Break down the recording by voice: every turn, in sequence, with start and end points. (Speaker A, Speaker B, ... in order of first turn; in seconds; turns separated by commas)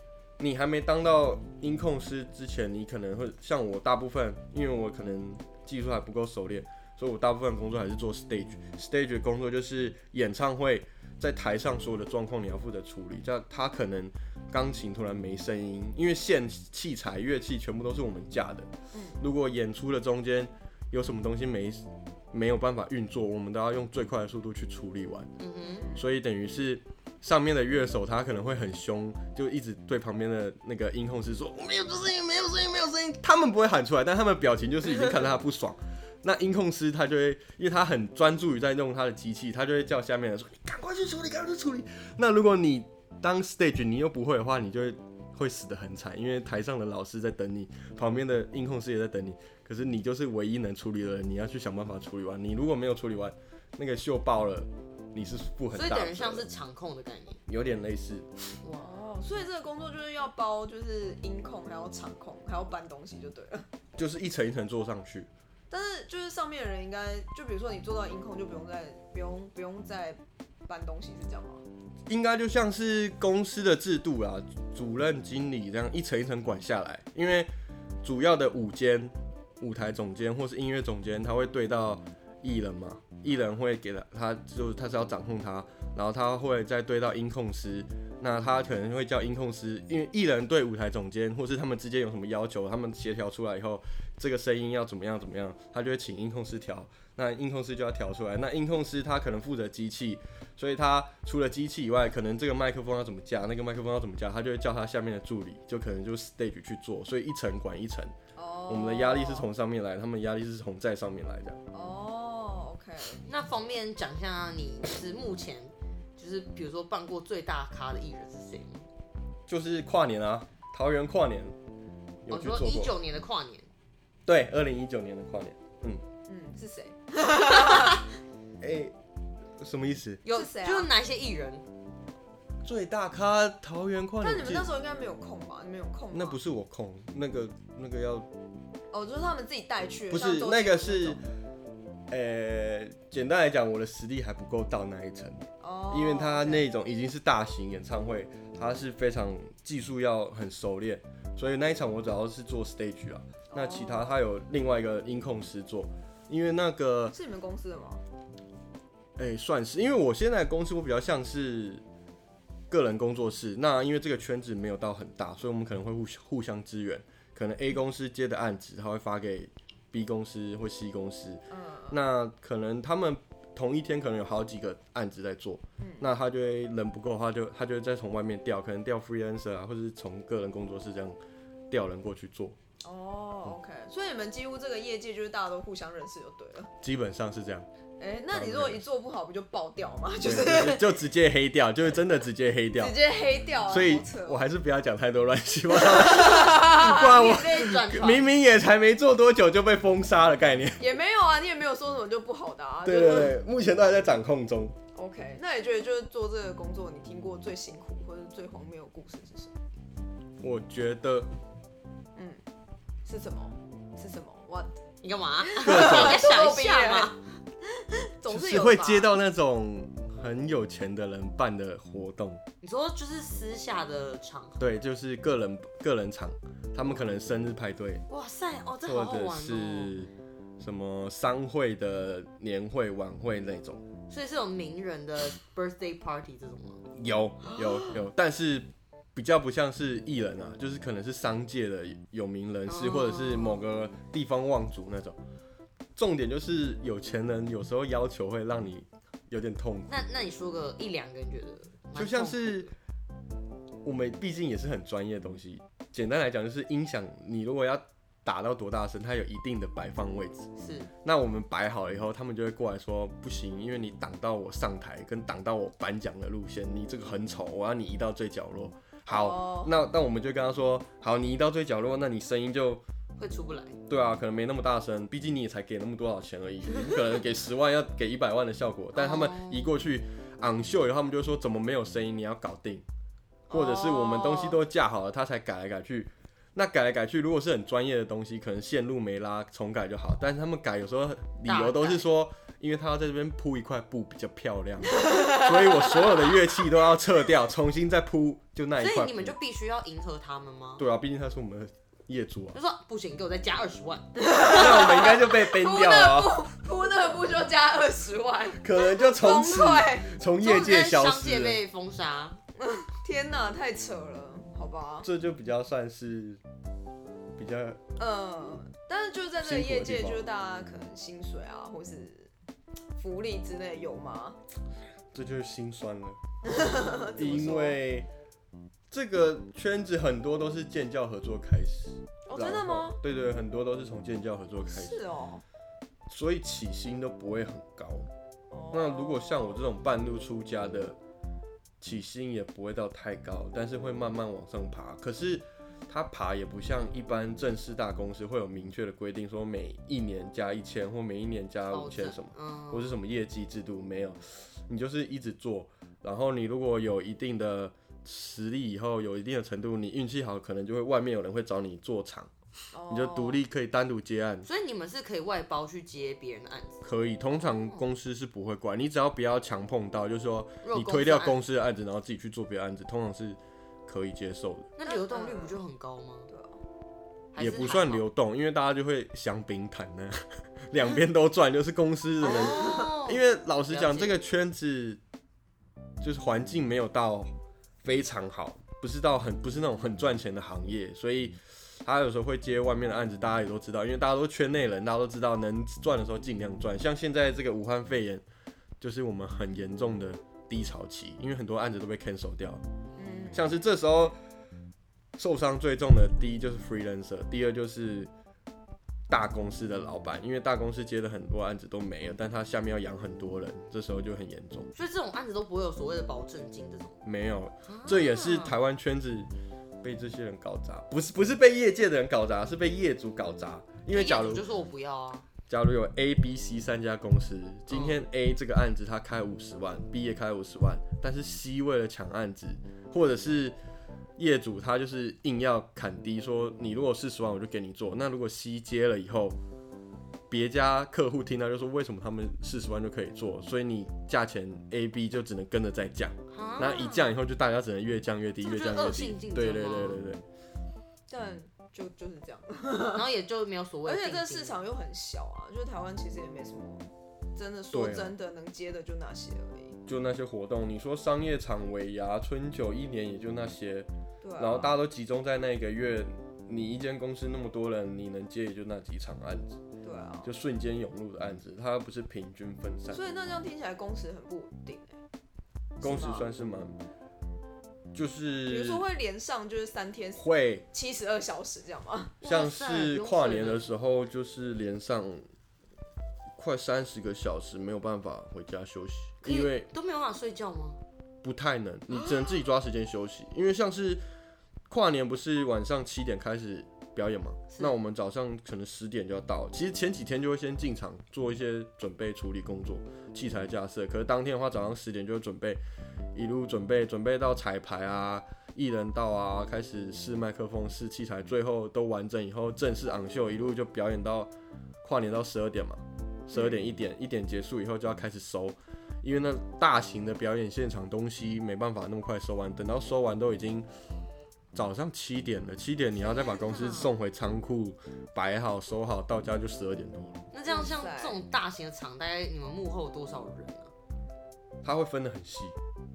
Speaker A: 0.4-25.3, Speaker B: 18.9-19.2, Speaker C: 25.4-25.9, Speaker A: 25.9-56.5, Speaker C: 55.7-57.4, Speaker A: 57.5-58.5, Speaker C: 58.6-59.0, Speaker B: 58.7-63.7, Speaker A: 64.0-65.3, Speaker B: 65.7-71.6, Speaker A: 72.1-77.5, Speaker A: 78.0-108.1, Speaker B: 108.3-109.5, Speaker A: 108.7-111.6, Speaker B: 111.7-113.3, Speaker C: 113.3-118.8, Speaker A: 119.5-121.5, Speaker A: 122.2-122.9, Speaker C: 122.3-123.7, Speaker A: 124.2-126.0, Speaker B: 126.3-128.1, Speaker A: 128.6-128.9, Speaker A: 129.6-130.2, Speaker C: 130.2-131.6, Speaker B: 130.3-130.9, Speaker A: 132.6-134.7, Speaker B: 134.2-136.4, Speaker A: 136.1-138.3, Speaker B: 138.9-141.2, Speaker A: 140.1-141.2, Speaker A: 142.1-157.1, Speaker B: 145.6-146.7, Speaker B: 153.5-154.2, Speaker B: 157.1-158.0, Speaker A: 159.2-161.8, Speaker A: 162.7-181.2, Speaker B: 171.5-172.0, Speaker B: 175.8-176.1, Speaker A: 181.7-182.6, Speaker B: 182.8-186.7, Speaker A: 186.8-187.7, Speaker B: 188.0-190.9, Speaker A: 188.3-188.8, Speaker A: 190.2-193.0, Speaker B: 192.8-194.4, Speaker A: 193.7-200.8, Speaker B: 195.7-197.2, Speaker C: 196.6-198.3, Speaker B: 200.8-203.4, Speaker A: 202.8-204.7, Speaker B: 204.9-209.5, Speaker A: 210.4-211.3, Speaker B: 212.2-212.4, Speaker B: 213.1-214.7, Speaker C: 215.0-217.2, Speaker B: 215.4-217.2, Speaker A: 215.6-216.2, Speaker B: 217.7-219.1, Speaker A: 218.3-222.4, Speaker C: 222.6-224.6, Speaker A: 224.6-228.0, Speaker C: 228.1-229.9, Speaker A: 228.8-233.8, Speaker C: 234.1-236.8, Speaker A: 236.9-245.2, Speaker C: 237.5-237.9, Speaker C: 242.7-243.7, Speaker A: 245.9-249.9, Speaker C: 249.9-252.7, Speaker A: 251.9-252.7, Speaker A: 253.8-260.5, Speaker C: 260.6-260.9, Speaker A: 261.0-272.8, Speaker B: 269.1-269.7, Speaker C: 273.2-273.8, Speaker A: 273.9-282.8, Speaker C: 278.9-279.7, Speaker B: 283.5-284.6, Speaker A: 283.5-299.4, Speaker C: 291.4-292.1, Speaker B: 295.1-295.4, Speaker C: 298.8-300.8, Speaker A: 300.8-302.6, Speaker C: 302.5-304.5, Speaker B: 304.2-310.1, Speaker A: 304.5-306.4, Speaker A: 308.6-311.6, Speaker C: 310.4-312.4, Speaker B: 312.6-315.1, Speaker A: 315.0-316.4, Speaker A: 317.4-317.8, Speaker B: 318.0-322.3, Speaker A: 319.4-320.2, Speaker B: 323.0-324.4, Speaker A: 325.1-328.1, Speaker B: 326.4-327.8, Speaker A: 328.9-335.0, Speaker B: 332.3-333.0, Speaker B: 334.7-335.4, Speaker A: 336.1-338.1, Speaker B: 338.5-339.6, Speaker A: 338.7-341.0, Speaker A: 341.8-362.3, Speaker C: 351.7-353.0, Speaker B: 362.7-363.4, Speaker A: 362.9-364.5, Speaker C: 364.4-366.8, Speaker A: 366.8-374.7, Speaker C: 367.5-367.8, Speaker C: 370.6-371.4, Speaker C: 374.8-376.3, Speaker B: 374.8-375.6, Speaker B: 376.3-376.6, Speaker C: 377.3-378.0, Speaker A: 377.4-385.0, Speaker C: 382.2-384.2, Speaker B: 382.2-382.9, Speaker A: 386.0-387.3, Speaker A: 387.8-398.2, Speaker A: 398.8-402.6, Speaker B: 402.9-403.6, Speaker A: 403.3-404.2, Speaker A: 405.1-408.1, Speaker A: 409.1-414.7, Speaker C: 414.7-417.0, Speaker A: 417.0-419.3, Speaker C: 417.6-418.6, Speaker A: 419.8-424.5, Speaker C: 423.9-425.2, Speaker A: 425.5-433.6, Speaker C: 427.7-428.0, Speaker A: 434.2-439.4, Speaker A: 440.3-450.2, Speaker C: 446.3-447.1, Speaker C: 448.4-450.0, Speaker B: 451.1-453.0, Speaker C: 452.9-454.6, Speaker B: 453.8-459.8, Speaker A: 457.7-458.1, Speaker A: 459.9-469.6, Speaker B: 464.2-464.8, Speaker B: 469.8-470.3, Speaker A: 470.2-473.0, Speaker B: 472.9-475.0, Speaker B: 475.8-476.3, Speaker A: 475.8-476.8, Speaker A: 477.9-478.8, Speaker B: 478.5-482.2, Speaker A: 480.1-480.6, Speaker C: 482.2-483.6, Speaker A: 482.2-485.2, Speaker A: 486.4-489.7, Speaker C: 489.2-490.8, Speaker A: 491.2-494.0, Speaker A: 494.7-505.6, Speaker A: 506.1-514.3, Speaker A: 514.8-523.7, Speaker A: 524.5-530.2, Speaker C: 526.0-526.9, Speaker C: 530.3-533.7, Speaker B: 530.5-531.2, Speaker A: 534.6-535.5